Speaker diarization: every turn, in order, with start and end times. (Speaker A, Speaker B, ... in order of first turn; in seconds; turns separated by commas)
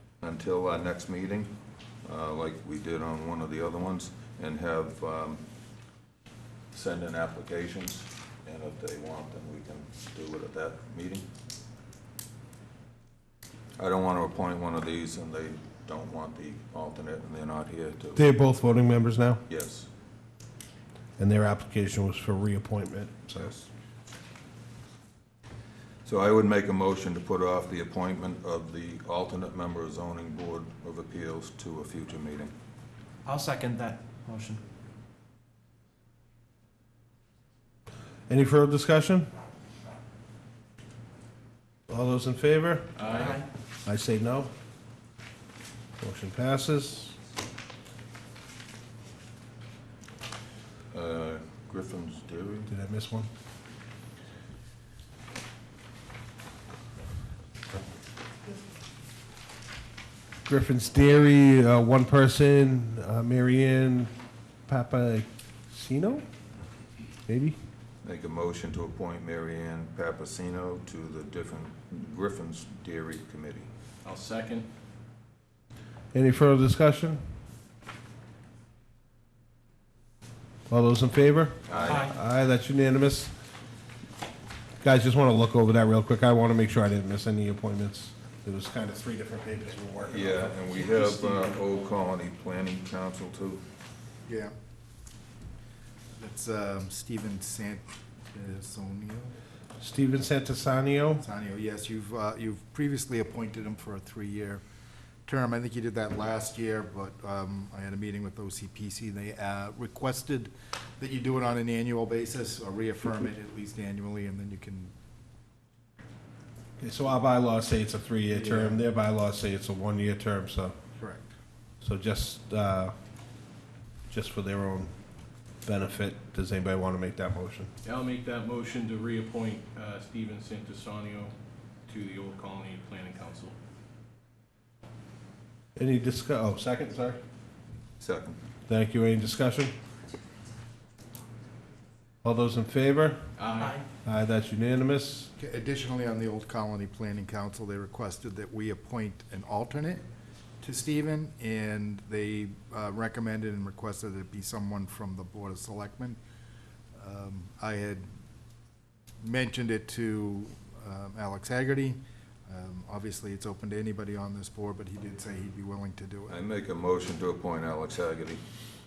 Speaker A: 0.2-1.5, Speaker A: 2.0-5.4, Speaker A: 6.7-11.3, Speaker A: 13.8-18.2, Speaker B: 18.2-19.4, Speaker A: 19.5-19.9, Speaker B: 21.2-23.7, Speaker A: 26.1-32.5, Speaker C: 33.3-34.6, Speaker B: 38.3-39.3, Speaker B: 41.9-43.3, Speaker D: 43.0-43.4, Speaker C: 43.1-43.5, Speaker B: 43.8-44.5, Speaker B: 46.0-47.2, Speaker A: 50.9-52.7, Speaker B: 52.7-53.3, Speaker B: 60.5-64.1, Speaker B: 64.7-66.2, Speaker B: 67.3-67.6, Speaker A: 68.0-73.7, Speaker D: 74.0-74.7, Speaker B: 76.1-77.2, Speaker B: 80.7-83.3, Speaker A: 81.7-82.1, Speaker C: 81.8-82.1, Speaker B: 84.8-90.6, Speaker A: 90.0-93.6, Speaker C: 90.9-91.3, Speaker E: 94.3-94.5, Speaker E: 96.2-99.3, Speaker B: 99.8-101.2, Speaker E: 101.2-104.6, Speaker E: 105.3-114.9, Speaker B: 116.8-120.8, Speaker E: 118.3-118.8, Speaker E: 121.0-121.2, Speaker B: 121.8-122.9, Speaker B: 124.1-124.9, Speaker B: 125.7-127.7, Speaker D: 127.8-131.3, Speaker D: 131.9-133.6, Speaker B: 135.8-137.2, Speaker A: 138.0-138.4, Speaker B: 138.7-139.7, Speaker B: 142.2-143.2, Speaker D: 143.4-143.8, Speaker B: 144.0-145.3, Speaker E: 145.4-150.0, Speaker E: 150.6-156.2, Speaker E: 156.9-158.1, Speaker E: 159.2-166.4, Speaker A: 166.3-168.4